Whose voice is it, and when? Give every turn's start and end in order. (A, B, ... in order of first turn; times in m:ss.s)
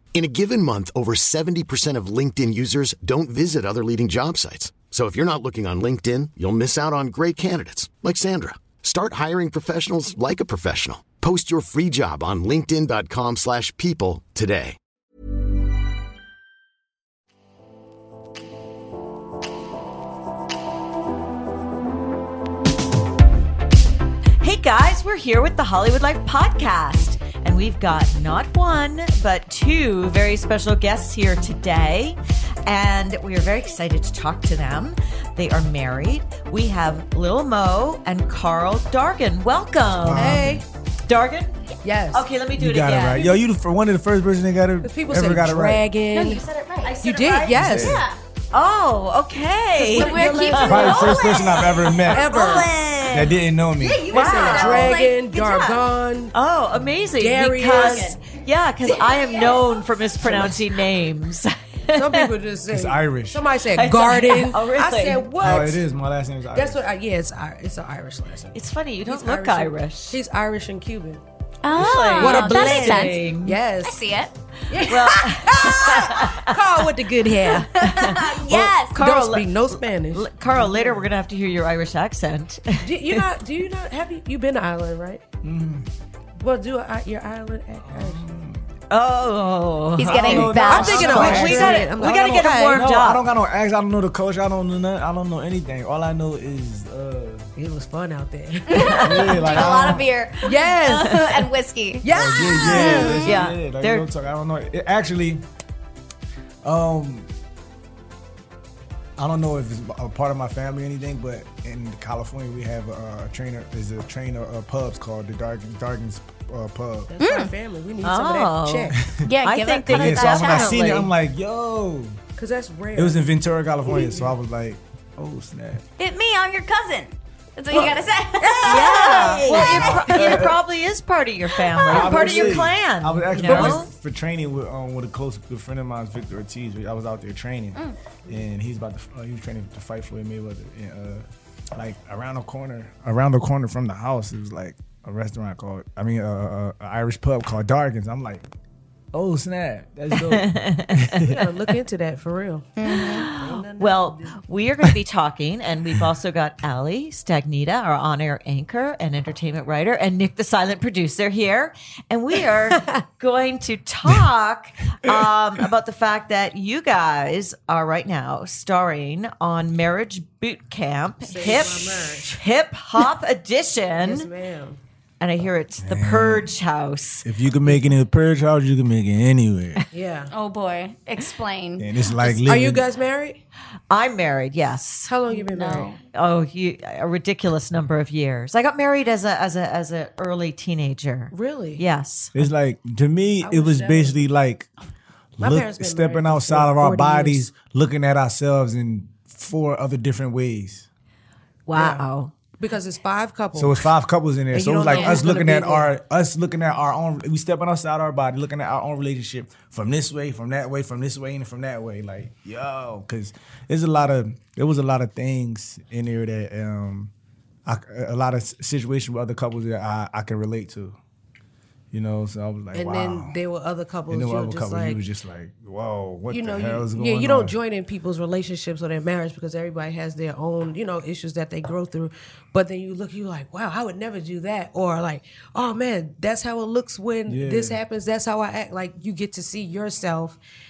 0:00.1-0:14.8 A
0:24.4-0:40.5 B
0:40.0-0:40.6 C
0:40.2-0:40.6 D
0:41.1-0:41.6 B
0:41.8-0:42.2 D
0:42.1-0:43.4 B
0:42.6-0:45.8 C
0:44.8-0:46.4 D
0:46.1-0:48.2 E
0:46.8-0:47.9 B
0:47.0-0:48.0 D
0:47.5-0:48.1 C
0:48.5-0:53.4 B
0:49.8-0:52.9 E
0:49.8-0:51.4 D
0:50.6-0:52.4 C
0:52.1-0:52.7 D
0:53.1-0:54.0 C
0:53.8-0:55.8 E
0:54.1-0:55.0 B
0:54.1-0:56.3 D
0:56.3-1:02.2 B
0:57.2-0:58.2 D
0:57.7-0:58.2 E
0:58.9-0:59.6 E
1:01.9-1:05.8 D
1:02.7-1:03.4 C
1:03.7-1:05.2 B
1:05.4-1:06.8 C
1:06.5-1:11.2 D
1:08.5-1:10.2 B
1:11.6-1:13.2 E
1:11.7-1:13.6 B
1:12.2-1:14.0 D
1:13.8-1:14.3 E
1:14.7-1:17.8 D
1:14.9-1:16.6 B
1:17.6-1:19.0 E
1:17.7-1:23.2 B
1:18.4-1:21.0 D
1:22.8-1:25.2 D
1:25.4-1:25.9 C
1:26.4-1:28.2 D
1:27.9-1:28.6 C
1:28.9-1:33.2 B
1:30.0-1:31.5 E
1:30.0-1:37.5 C
1:30.2-1:32.8 D
1:37.6-1:39.1 D
1:38.7-1:43.2 E
1:38.8-1:39.1 B
1:39.0-1:40.1 C
1:40.4-1:41.2 D
1:41.1-1:41.4 B
1:42.0-1:43.4 D
1:42.1-1:45.4 C
1:43.2-1:44.1 B
1:46.6-1:47.3 C
1:49.2-1:57.1 C
1:57.1-1:59.0 D
1:57.2-1:57.5 E
1:58.0-2:01.1 B
1:59.2-2:01.0 E
1:59.8-2:02.2 C
2:02.4-2:03.3 D
2:03.0-2:05.8 C
2:03.9-2:04.3 D
2:06.0-2:10.2 E
2:08.4-2:09.7 D
2:08.6-2:13.9 B
2:09.5-2:10.6 C
2:11.5-2:12.1 E
2:11.8-2:28.4 C
2:13.4-2:13.8 D
2:29.1-2:31.4 C
2:30.1-2:31.3 B
2:31.2-2:32.7 D
2:32.8-2:33.3 E
2:32.8-2:54.3 B
2:33.3-2:34.4 D
2:51.2-2:52.4 D
2:54.0-2:54.8 D
2:55.2-2:57.8 B
2:55.8-2:56.5 C
2:57.2-2:59.8 C
2:59.9-3:00.3 D
3:00.3-3:01.9 E
3:01.8-3:02.8 C
3:02.2-3:03.4 D
3:03.9-3:05.1 B
3:05.1-3:05.9 D
3:05.3-3:06.0 E
3:06.1-3:12.4 B
3:11.3-3:11.8 D
3:12.3-3:14.7 C
3:13.4-3:14.2 D
3:15.4-3:20.9 C
3:15.4-3:17.5 D
3:21.7-3:22.3 B
3:21.8-3:22.0 D
3:22.6-3:23.9 D
3:23.5-3:37.1 C
3:24.5-3:25.9 D
3:24.9-3:25.2 E
3:37.7-3:41.0 C
3:41.9-3:43.4 C
3:42.7-3:45.0 D
3:44.1-3:47.5 C
3:46.3-4:00.4 D
3:57.3-3:57.8 C